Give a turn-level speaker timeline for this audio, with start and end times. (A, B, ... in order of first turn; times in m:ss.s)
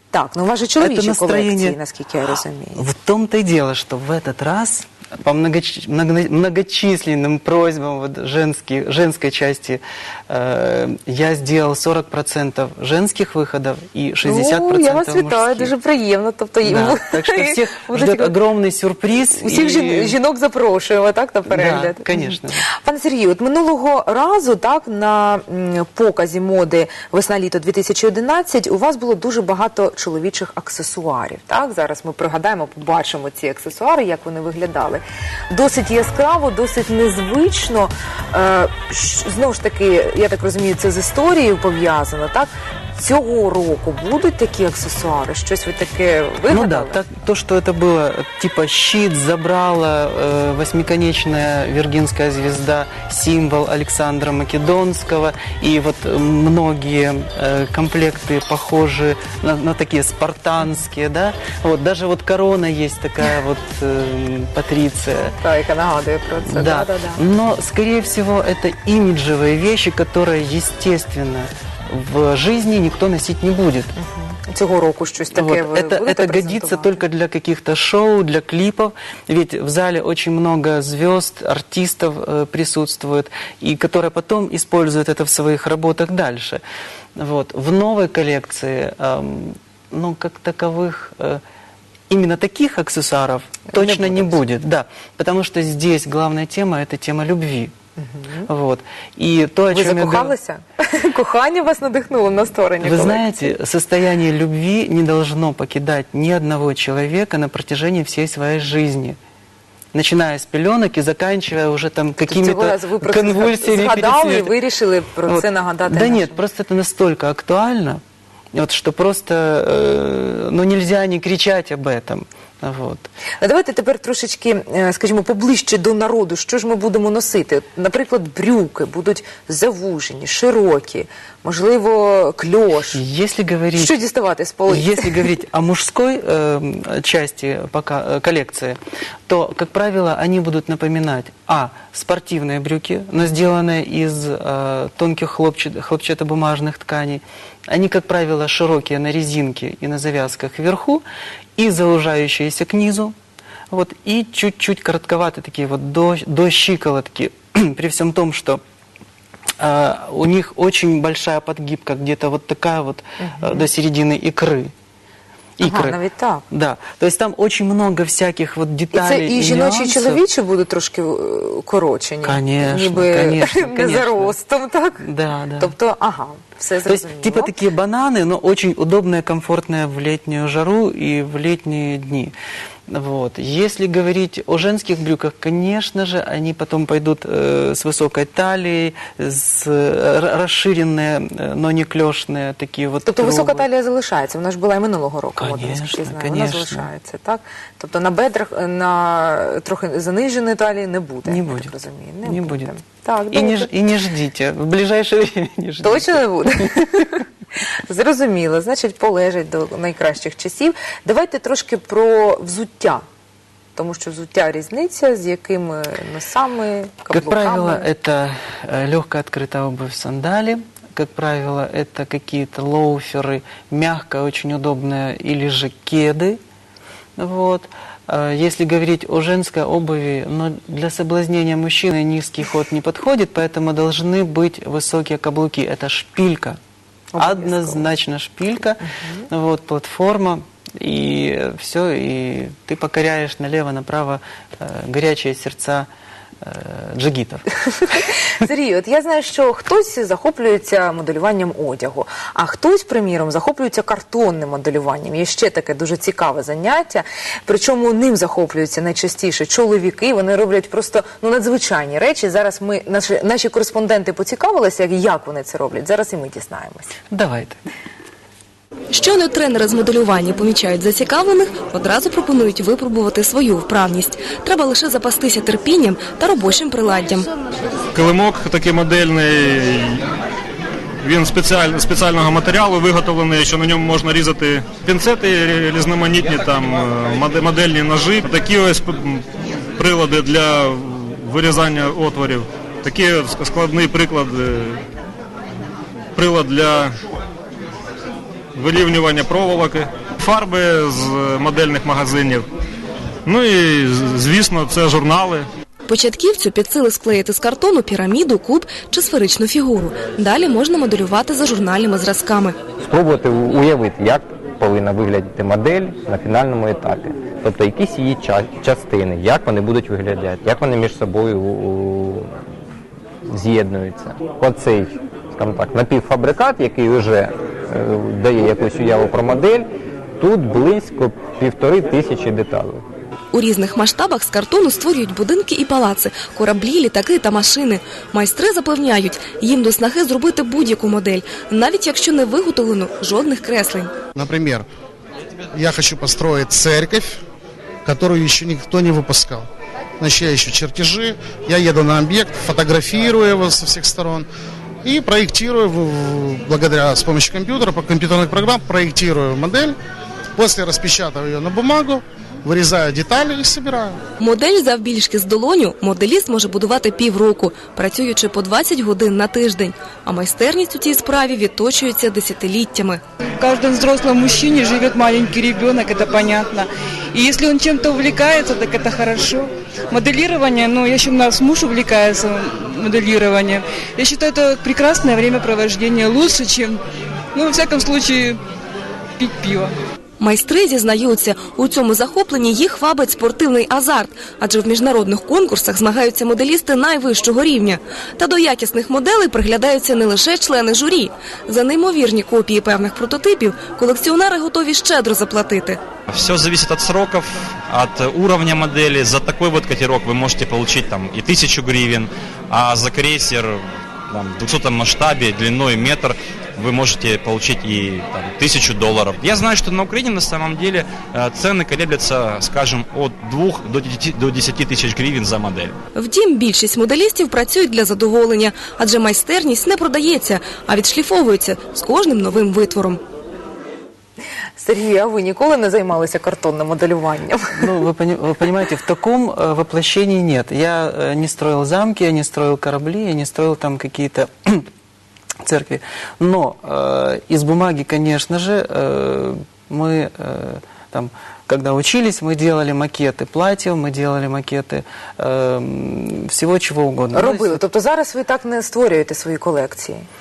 0:00.1-0:02.8 A
0:00.8-0:01.8 B
0:02.8-0:15.7 B
0:14.2-0:18.4 A
0:16.6-0:20.2 B
0:19.4-0:47.0 A
0:21.5-0:22.7 B
0:46.5-1:05.4 B
1:05.4-1:07.2 A
1:06.4-1:13.9 B
1:14.0-1:17.0 A
1:15.3-1:26.6 B
1:27.2-1:31.4 B
1:32.1-1:37.7 B
1:33.7-1:34.4 A
1:38.0-1:38.5 A
1:38.5-1:40.4 B
1:39.7-1:43.5 A
1:42.8-1:49.2 B
1:49.9-1:54.5 B
1:52.3-1:56.4 A
1:55.3-1:58.0 B
1:58.5-2:03.1 B
2:03.4-2:13.0 A
2:12.9-2:14.0 B
2:13.8-2:15.2 A
2:14.7-2:31.0 B
2:31.6-2:33.2 B
2:33.7-2:38.6 B
2:39.6-2:44.7 B
2:43.2-2:43.7 A
2:45.6-2:46.0 B
2:45.6-2:46.4 A
2:46.5-2:50.2 B
2:48.9-2:55.0 A
2:52.2-2:54.4 B
2:55.0-2:55.7 B
2:55.6-2:57.5 A
2:56.8-3:02.3 B
3:02.9-3:13.7 B
3:13.1-3:23.7 A
3:15.4-3:16.9 B
3:21.2-3:22.7 B
3:23.3-3:27.1 B
3:25.8-3:27.2 A
3:27.9-3:33.0 A
3:33.8-3:37.9 A
3:37.1-3:46.4 B
3:47.2-3:56.6 B
3:57.1-3:57.9 A
3:57.2-4:05.9 B
3:58.9-3:59.3 A
4:06.4-4:08.0 B
4:07.9-4:26.9 A
4:27.1-4:27.6 B
4:28.9-4:37.3 C
4:37.9-4:40.0 D
4:41.0-4:54.8 D
4:56.2-4:56.9 D
4:58.5-5:02.5 D
5:03.3-5:05.5 D
5:05.9-5:12.6 C
5:12.8-5:22.3 E
5:23.3-5:29.7 E
5:30.2-5:32.8 E
5:33.3-5:43.9 C
5:44.2-5:44.7 F
5:45.5-5:47.2 F
5:47.8-5:49.5 F
5:50.0-5:54.3 F
5:54.8-5:59.8 F
6:00.4-6:04.0 F
6:04.2-6:13.0 C
6:13.4-6:26.8 G
6:27.3-6:28.4 G
6:29.2-6:29.7 G
6:30.2-6:45.8 C
6:46.1-7:05.7 H
7:06.0-7:13.0 C
7:14.6-7:17.7 A
7:17.6-7:24.7 B
7:25.4-7:37.6 B
7:37.1-7:40.1 A